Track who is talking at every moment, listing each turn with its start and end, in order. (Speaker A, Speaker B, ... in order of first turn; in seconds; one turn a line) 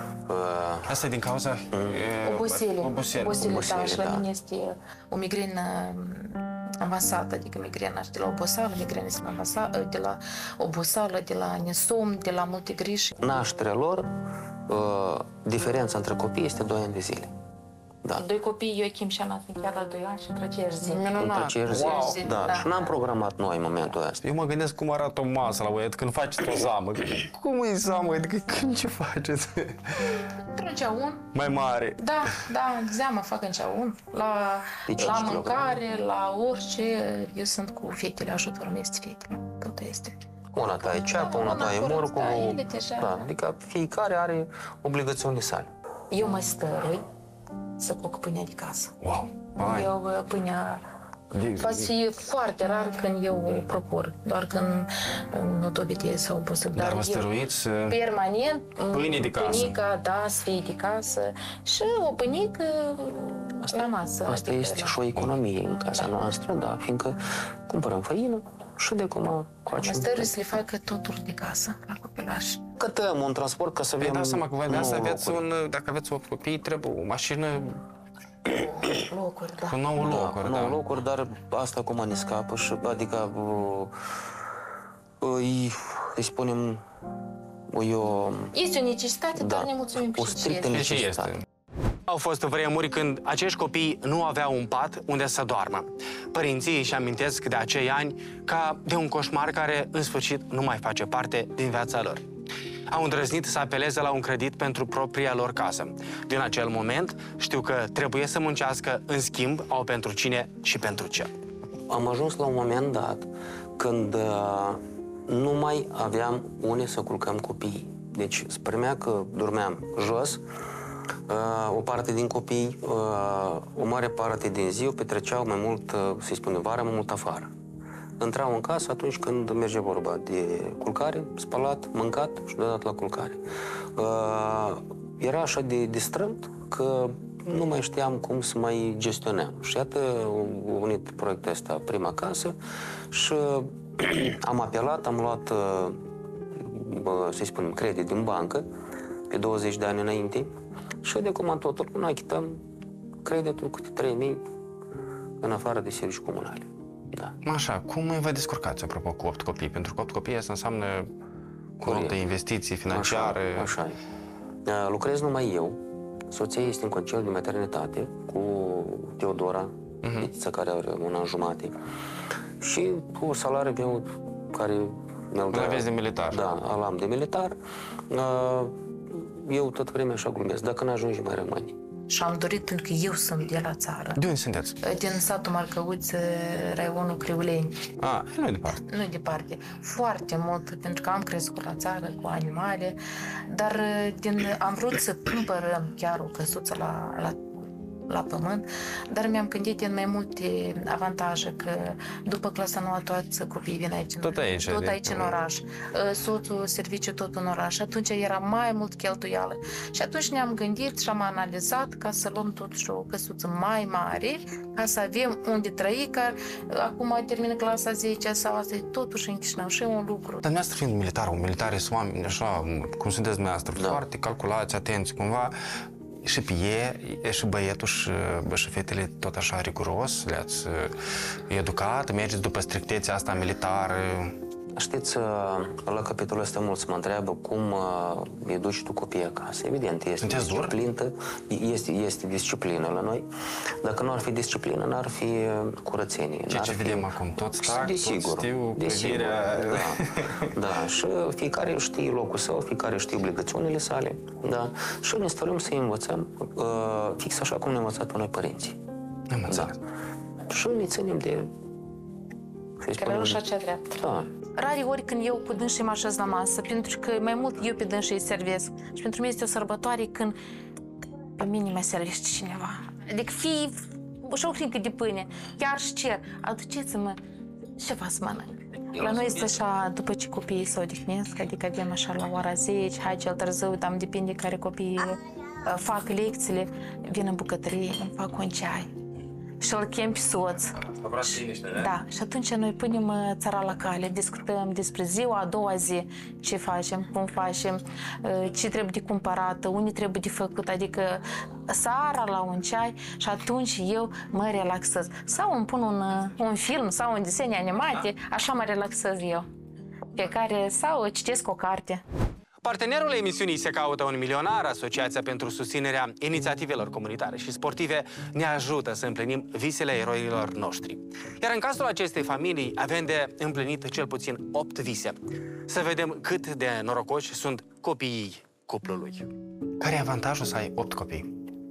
Speaker A: 0.3-1.0
Speaker B: 0.9-3.5
Speaker A: 1.7-2.1
Speaker C: 2.2-13.2
Speaker A: 3.3-4.2
Speaker A: 13.2-14.1
Speaker A: 14.7-17.3
Speaker C: 18.2-22.9
Speaker B: 20.9-22.4
Speaker A: 21.1-24.2
Speaker B: 24.2-30.1
Speaker C: 30.4-31.3
Speaker B: 31.3-32.0
Speaker C: 32.0-43.3
Speaker A: 34.9-35.7
Speaker A: 40.5-45.7
Speaker C: 46.1-47.0
Speaker C: 47.8-48.9
Speaker B: 49.0-49.9
Speaker C: 49.6-50.8
Speaker B: 51.3-51.9
Speaker C: 51.5-57.3
Speaker B: 56.8-58.0
Speaker C: 57.9-65.0
Speaker B: 58.9-59.7
Speaker A: 63.7-70.3
Speaker C: 69.8-72.6
Speaker A: 72.8-75.4
Speaker B: 74.0-77.8
Speaker C: 78.5-79.8
Speaker B: 79.7-80.8
Speaker A: 80.0-83.9
Speaker A: 85.2-86.8
Speaker A: 87.7-88.5
Speaker C: 88.5-90.8
Speaker A: 89.4-91.3
Speaker B: 90.7-91.4
Speaker B: 92.1-102.2
Speaker B: 102.9-111.3
Speaker A: 111.9-120.4
Speaker A: 121.3-127.5
Speaker A: 128.2-133.4
Speaker A: 134.0-142.6
Speaker A: 143.1-146.0
Speaker A: 146.5-148.7
Speaker A: 149.3-150.5
Speaker A: 151.0-152.6
Speaker A: 153.2-154.4
Speaker A: 155.4-157.3
Speaker B: 157.4-161.1
Speaker B: 161.8-163.8
Speaker A: 161.8-162.2
Speaker A: 162.9-164.0
Speaker A: 164.7-171.8
Speaker B: 170.0-170.3
Speaker A: 172.6-177.6
Speaker B: 175.5-176.4
Speaker A: 178.1-181.8
Speaker C: 182.1-184.2
Speaker B: 184.2-184.8
Speaker C: 184.8-187.8
Speaker B: 188.0-188.8
Speaker C: 188.9-220.4
Speaker B: 204.2-205.3
Speaker B: 220.4-225.6
Speaker A: 223.8-224.0
Speaker B: 226.2-234.3
Speaker A: 234.8-243.3
Speaker B: 240.2-240.7
Speaker A: 243.8-258.8
Speaker B: 246.5-250.5
Speaker B: 259.3-259.8
Speaker A: 259.5-259.8
Speaker A: 260.5-261.5
Speaker A: 262.8-263.4
Speaker C: 263.0-264.0
Speaker A: 264.0-264.3
Speaker C: 264.6-270.4
Speaker C: 271.4-277.2
Speaker C: 277.8-288.9
Speaker A: 278.9-279.5
Speaker C: 289.6-309.5
Speaker B: 290.9-291.8
Speaker C: 310.1-312.0
Speaker B: 312.6-325.2
Speaker B: 325.7-329.3
Speaker B: 329.8-331.3